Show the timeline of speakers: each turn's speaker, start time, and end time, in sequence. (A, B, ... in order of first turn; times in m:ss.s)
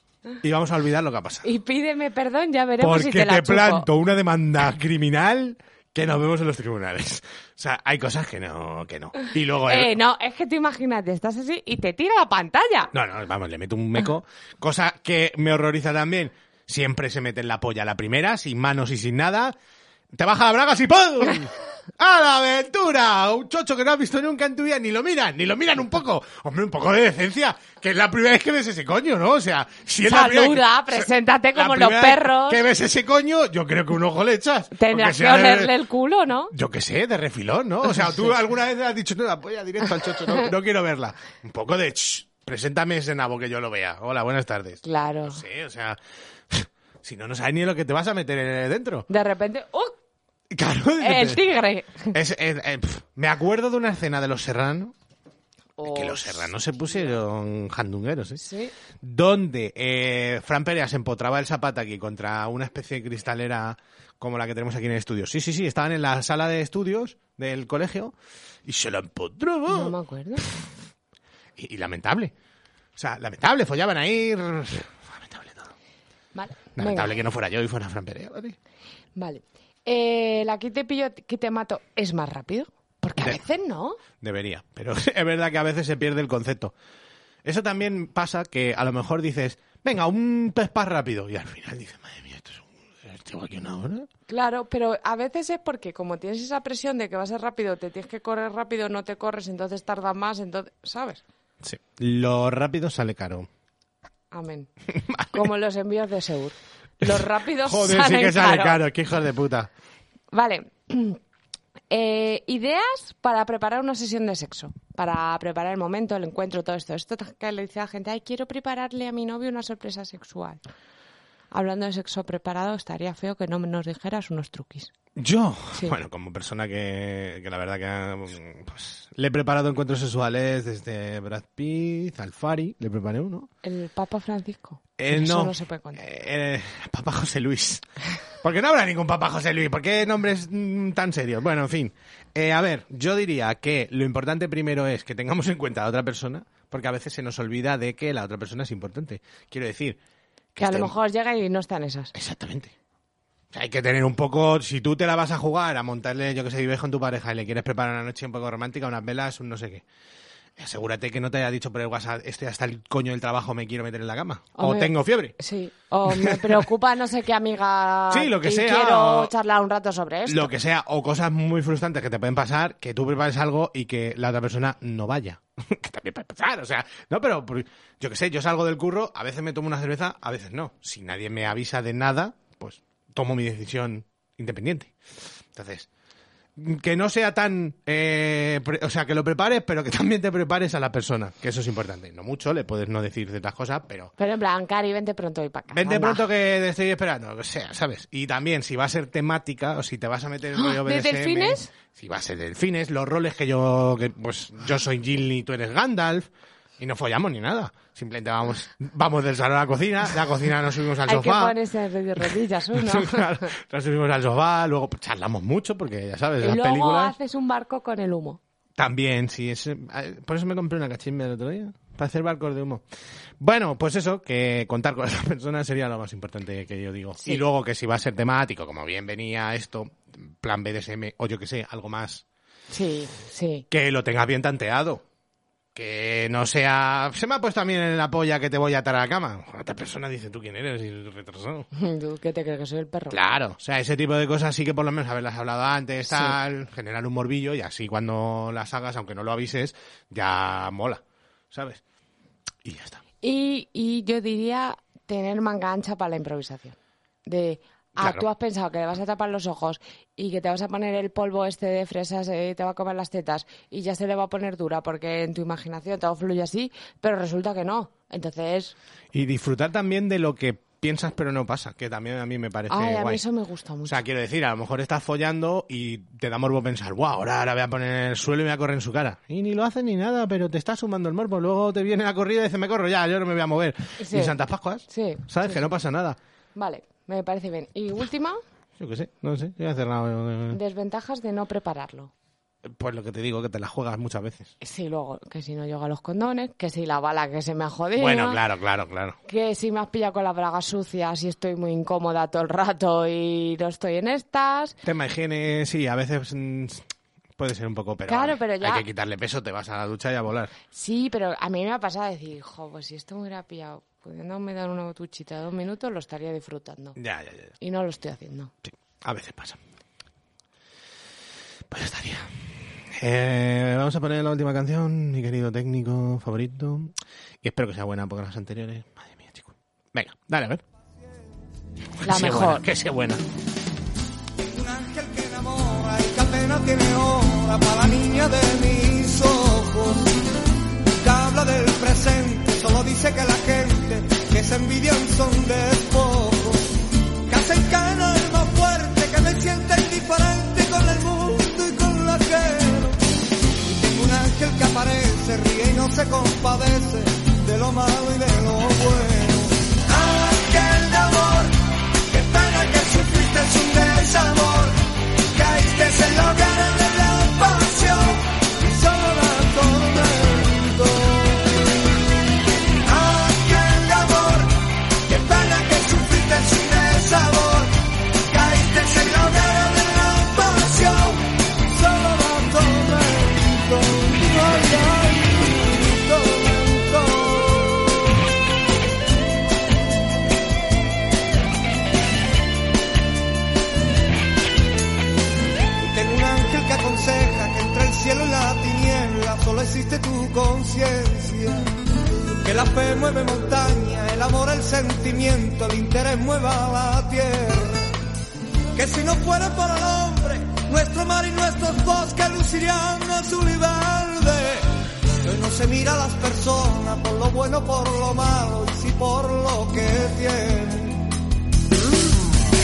0:00.4-0:01.5 A
0:01.4-0:03.8 B
0:02.8-0:09.9 A
0:09.7-0:12.9 B
0:12.9-0:19.6 A
0:20.1-0:35.7 A
0:30.0-0:32.6 B
0:34.7-0:36.5 B
0:36.5-0:46.0 A
0:44.8-0:45.4 B
0:46.5-0:49.1 A
0:49.1-0:49.9 B
0:50.5-0:51.4 A
0:51.0-0:52.1 B
0:52.1-0:54.9 A
0:55.8-0:56.5 B
0:55.8-0:58.4 A
0:58.4-0:58.7 B
0:59.0-1:08.1 A
1:08.6-1:10.5 A
1:09.7-1:10.6 B
1:11.6-1:12.3 A
1:13.0-1:15.7 A
1:16.3-1:17.1 B
1:16.8-1:18.6 A
1:19.2-1:24.0 B
1:24.2-1:26.7 A
1:27.4-1:34.1 A
1:34.3-1:41.2 B
1:41.6-1:43.5 A
1:44.3-1:44.7 B
1:45.0-1:45.4 A
1:45.3-1:48.8 B
1:47.0-1:49.7 A
1:50.3-1:51.2 B
1:51.9-2:00.6 B
2:01.5-2:04.9 B
2:05.2-2:13.5 A
2:13.6-2:16.0 B
2:15.0-2:17.8 A
2:18.4-2:30.0 A
2:30.5-2:30.9 A
2:30.6-2:32.1 B
2:32.1-2:32.7 A
2:33.5-2:39.8 A
2:40.6-2:45.3 A
2:44.5-2:50.5 B
2:46.1-2:46.6 A
2:48.1-2:49.3 A
2:50.3-3:04.9 A
3:05.5-3:05.9 A
3:06.6-3:14.1 A
3:14.2-3:16.3 B
3:15.7-3:26.3 A
3:20.5-3:21.7 B
3:26.8-3:31.6 A
3:31.0-3:33.5 B
3:32.7-3:37.2 A
3:36.4-3:38.4 B
3:38.8-3:42.8 A
3:43.4-3:52.2 A
3:52.7-3:53.6 B
3:53.7-3:55.0 A
3:55.7-4:01.7 A
4:01.7-4:03.2 B
4:03.1-4:11.8 A
4:06.0-4:06.4 B
4:12.6-4:13.0 A
4:13.2-4:28.8 B
4:18.0-4:18.3 A
4:29.1-4:33.2 A
4:32.7-4:34.0 B
4:33.8-4:46.2 A
4:44.0-4:45.6 B
4:46.5-4:48.4 B
4:48.8-4:50.6 A
4:50.5-4:52.1 B
4:52.6-4:54.5 A
4:54.6-4:58.4 B
4:58.0-4:59.2 A
4:59.2-5:04.8 B
5:04.8-5:06.8 A
5:07.4-5:10.5 A
5:08.1-5:08.8 B
5:10.7-5:17.0 B
5:17.0-5:17.5 A
5:17.6-5:18.5 B
5:18.6-5:19.6 A
5:21.7-5:22.3 A
5:22.9-5:30.6 A
5:32.0-5:33.2 A
5:32.0-5:32.6 B
5:34.4-5:40.1 C
5:41.0-5:46.7 C
5:47.3-5:53.0 C
5:53.6-6:11.5 C
6:12.8-6:28.2 C
6:35.8-6:41.7 C
6:42.4-6:47.9 C
6:48.7-6:54.7 C
6:55.2-7:01.1 C